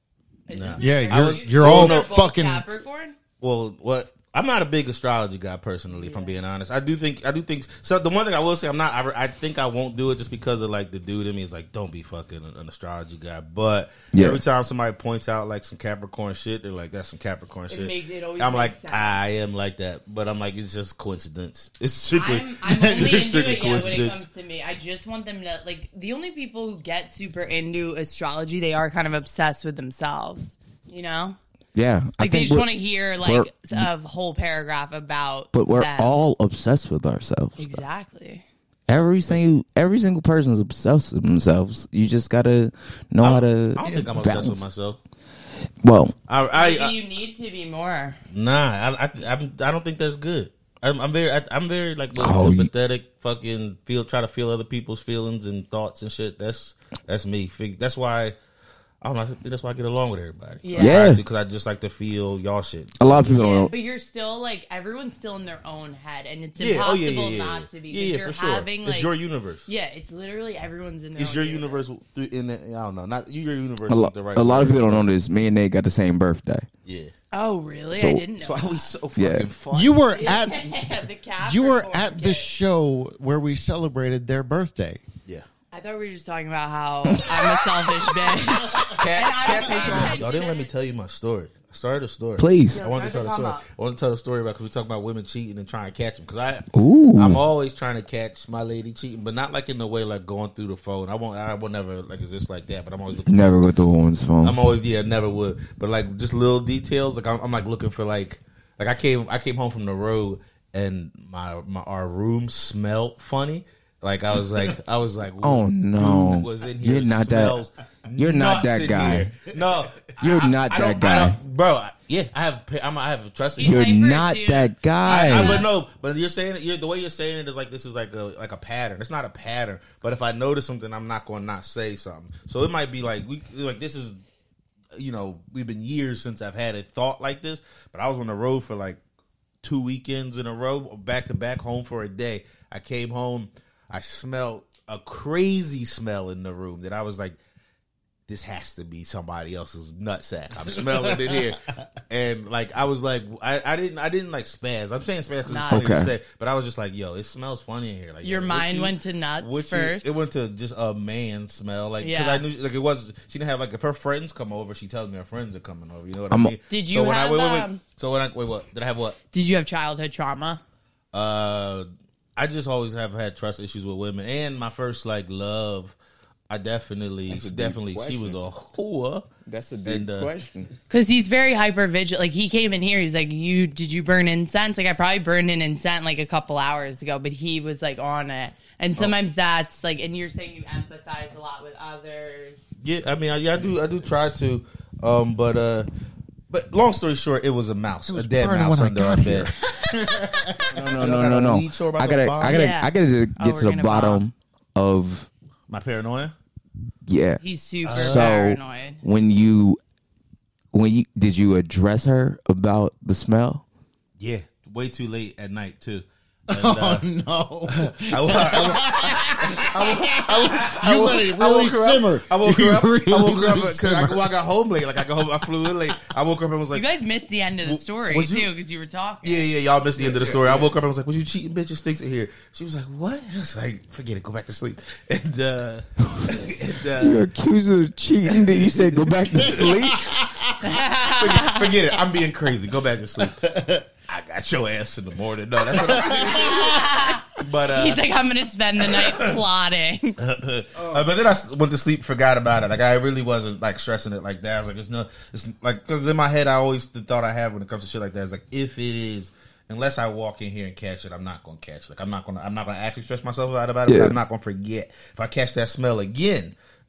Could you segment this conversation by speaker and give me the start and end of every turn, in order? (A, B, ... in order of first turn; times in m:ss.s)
0:00.5-0:03.2 A
0:00.5-0:02.1 B
0:00.8-0:02.6 C
0:03.4-0:24.2 B
0:05.9-0:06.4 A
0:14.1-0:14.4 D
0:17.7-0:19.2 A
0:22.2-0:31.4 A
0:31.8-0:32.7 D
0:32.2-0:36.1 A
0:33.2-0:33.9 D
0:35.5-0:37.8 D
0:37.6-0:38.4 A
0:38.9-0:44.6 D
0:43.2-0:45.0 B
0:45.8-0:46.1 D
0:46.3-0:47.0 B
0:46.5-0:48.2 A
0:48.3-0:58.4 B
0:52.2-0:52.7 D
0:59.0-1:03.3 B
1:00.6-1:01.0 A
1:00.8-1:01.2 D
1:03.0-1:03.7 D
1:03.2-1:09.1 A
1:06.6-1:09.7 B
1:09.7-1:11.8 A
1:11.2-1:15.1 B
1:13.9-1:16.7 D
1:16.8-1:17.1 B
1:17.3-1:18.9 A
1:17.9-1:18.2 D
1:18.4-1:20.0 B
1:19.2-1:19.5 D
1:19.7-1:25.0 C
1:20.1-1:22.5 A
1:25.7-1:30.7 A
1:28.8-1:43.6 B
1:32.4-1:32.8 D
1:32.7-1:33.6 A
1:36.7-1:37.4 D
1:43.3-1:44.6 D
1:44.4-2:03.8 B
1:55.4-1:57.6 D
1:58.2-1:59.3 D
2:00.2-2:01.4 D
2:03.6-2:05.7 A
2:03.6-2:05.6 D
2:05.0-2:14.2 B
2:14.9-2:19.0 B
2:19.6-2:27.4 B
2:28.3-2:49.2 B
2:35.5-2:35.9 A
2:35.7-2:36.1 D
2:38.2-2:40.2 A
2:42.0-2:42.4 A
2:46.7-2:47.8 A
2:49.3-2:50.6 A
2:51.1-2:56.0 B
2:56.5-2:59.3 B
2:57.3-2:58.4 D
2:59.5-3:00.7 D
2:59.9-3:00.3 B
3:00.9-3:12.6 A
3:12.8-3:15.9 B
3:16.5-3:19.6 B
3:18.1-3:20.7 C
3:20.7-3:22.7 B
3:20.7-3:25.3 D
3:22.4-3:24.2 A
3:25.7-3:26.3 B
3:27.1-3:29.8 D
3:27.4-3:29.0 A
3:27.9-3:28.3 B
3:30.7-3:33.6 D
3:34.2-3:37.0 B
3:36.5-3:44.3 C
3:37.7-3:46.8 B
3:46.7-3:49.5 A
3:47.6-3:48.5 B
3:49.2-3:57.3 B
3:50.0-3:50.7 C
3:57.0-4:00.1 D
3:58.4-3:59.7 B
3:59.4-4:00.4 C
4:00.6-4:01.7 A
4:01.0-4:08.0 B
4:03.3-4:03.8 C
4:05.7-4:06.7 C
4:06.3-4:10.2 A
4:08.8-4:09.4 B
4:10.2-4:26.6 B
4:10.8-4:11.0 C
4:23.9-4:24.2 D